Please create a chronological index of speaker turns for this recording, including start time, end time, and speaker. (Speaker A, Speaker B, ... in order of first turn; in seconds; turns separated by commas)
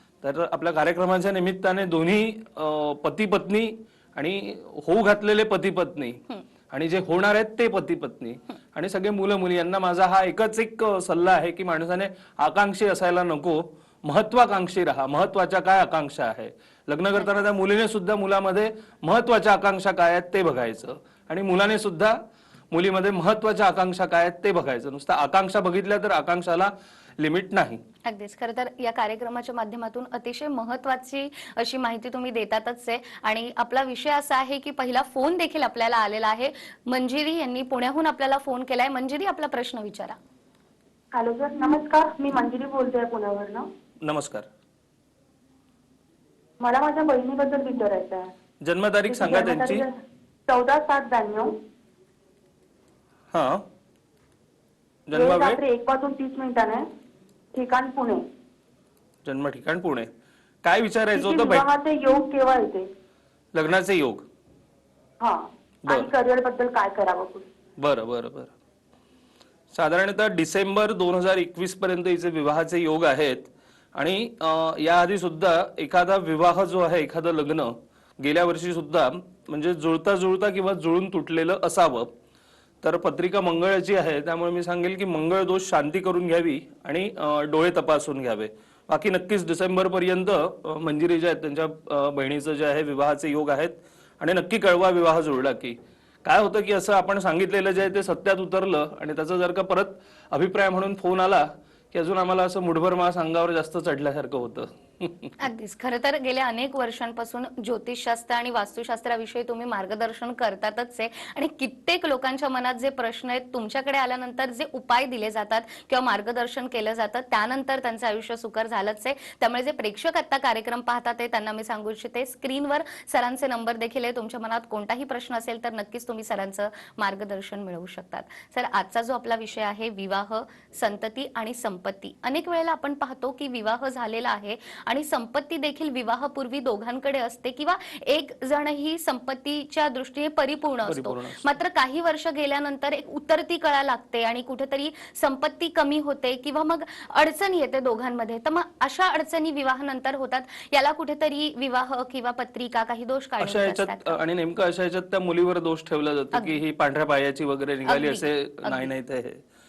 Speaker A: 0.2-22.2, Speaker A: 22.7-27.8, Speaker B: 28.0-40.1, Speaker C: 41.1-43.6, Speaker A: 44.0-44.5, Speaker C: 46.6-48.3, Speaker A: 48.6-49.8, Speaker C: 49.1-51.5, Speaker A: 53.3-53.6, Speaker A: 55.1-55.6, Speaker C: 55.1-56.8, Speaker C: 57.5-58.2, Speaker A: 59.2-60.1, Speaker A: 60.6-61.6, Speaker C: 61.1-62.9, Speaker A: 63.5-64.2, Speaker C: 65.2-67.5, Speaker A: 67.8-68.5, Speaker A: 69.7-82.1, Speaker A: 82.8-105.3, Speaker B: 105.4-154.2, Speaker A: 140.8-141.5, Speaker A: 153.4-159.4, Speaker B: 156.3-156.6, Speaker B: 157.8-158.9